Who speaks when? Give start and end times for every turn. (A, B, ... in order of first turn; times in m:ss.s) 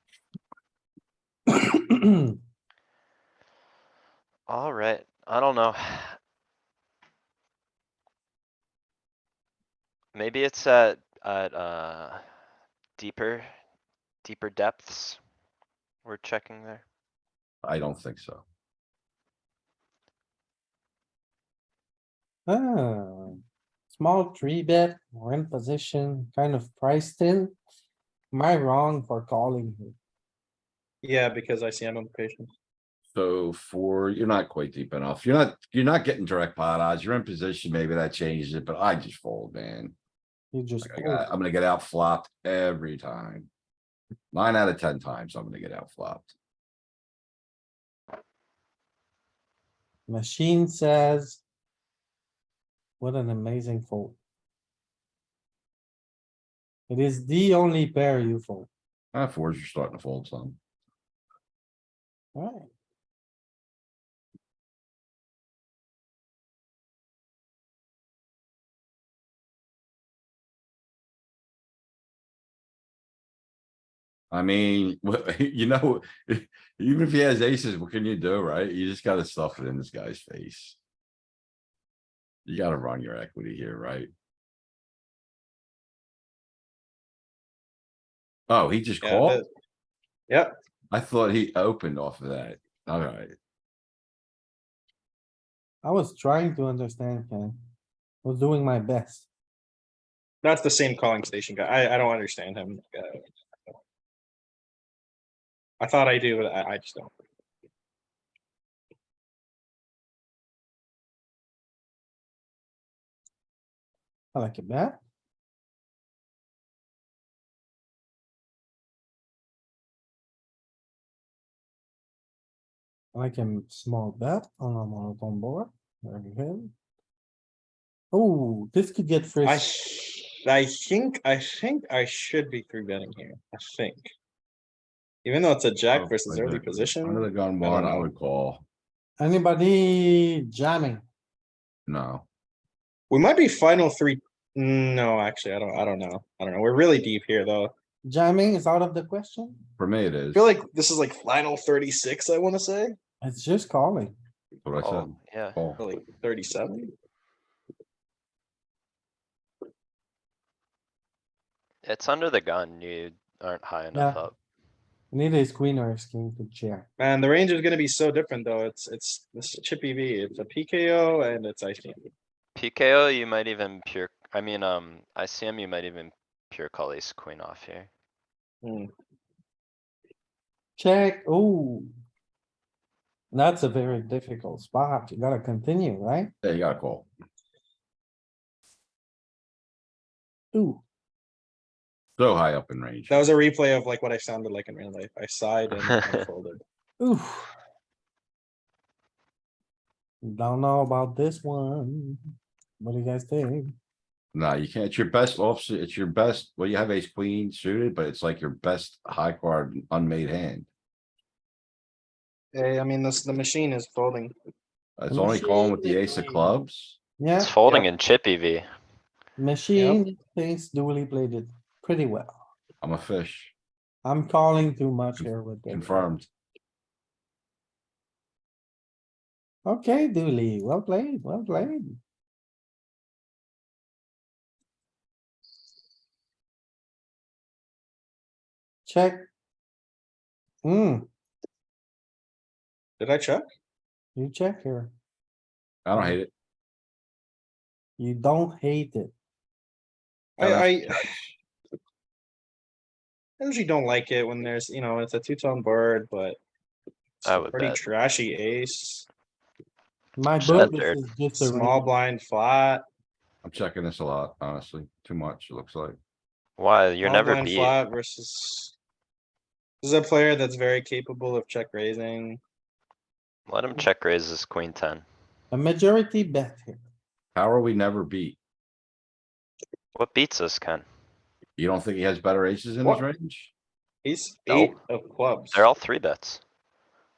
0:01.5-0:02.4 A
0:04.5-0:06.2 B
0:10.1-0:12.2 B
0:13.0-0:13.5 B
0:14.2-0:15.2 B
0:16.0-0:16.8 B
0:17.6-0:18.4 C
0:22.5-0:23.4 A
0:24.0-0:27.6 A
0:28.3-0:30.0 A
0:31.0-0:32.5 D
0:33.1-0:40.0 C
0:40.5-0:41.3 A
0:40.8-0:43.5 C
0:44.3-0:46.3 C
0:50.1-0:51.4 A
0:53.0-0:54.2 A
0:56.9-0:58.7 A
0:59.1-1:00.6 C
1:02.4-1:02.7 A
1:14.3-1:20.8 C
1:22.5-1:24.1 C
1:28.5-1:29.4 C
1:29.0-1:29.5 D
1:30.9-1:33.3 C
1:35.8-1:37.6 A
1:38.2-1:39.3 A
1:40.4-1:43.2 D
1:45.8-1:47.1 D
1:54.3-1:55.0 A
2:03.1-2:06.7 A
2:08.1-2:09.7 A
2:09.4-2:14.1 D
2:15.2-2:18.1 D
2:15.9-2:18.6 C
2:19.2-2:21.0 A
2:21.9-2:22.3 C
2:23.1-2:27.7 D
2:28.0-2:29.7 A
2:29.8-2:30.5 C
2:30.3-2:33.0 D
2:33.2-2:34.1 A
2:34.6-2:35.8 C
2:34.8-2:35.6 B
2:35.8-2:36.9 D
2:41.8-2:44.4 B
2:43.9-2:44.2 A
2:45.1-2:46.9 A
2:47.0-2:52.0 D
2:52.6-2:57.9 B
2:58.6-2:58.9 D
3:00.8-3:01.9 A
3:03.3-3:06.3 A
3:06.4-3:07.1 C
3:10.5-3:10.8 A
3:12.2-3:13.2 C
3:13.1-3:16.6 D
3:17.0-3:17.5 A
3:20.2-3:22.2 A
3:22.8-3:23.8 A
3:24.3-3:30.7 C
3:32.5-3:34.3 D
3:35.0-3:37.0 C
3:35.1-3:36.5 A
3:37.2-3:37.5 A
3:37.4-3:38.7 B
3:39.4-3:42.4 A
3:42.8-3:43.5 C
3:44.0-3:46.1 A
3:45.7-3:46.3 C
3:49.7-3:52.0 A
3:58.9-3:59.3 A
4:00.6-4:01.1 A
4:03.0-4:03.4 D
4:04.2-4:04.9 A
4:05.8-4:06.3 C
4:08.0-4:09.1 A
4:10.4-4:11.3 D
4:10.4-4:11.0 C
4:13.4-4:16.4 D
4:17.2-4:19.1 D
4:17.2-4:17.8 B
4:20.2-4:21.9 A
4:20.4-4:21.0 B
4:21.4-4:22.8 D
4:23.4-4:26.0 C
4:26.6-4:27.8 B
4:27.0-4:28.7 D
4:29.8-4:32.4 D
4:33.5-4:35.0 B
4:35.5-4:36.8 A
4:37.4-4:38.4 C
4:40.0-4:40.8 B
4:41.6-4:43.5 C
4:44.0-4:45.7 D
4:44.5-4:44.8 B
4:45.5-4:46.4 B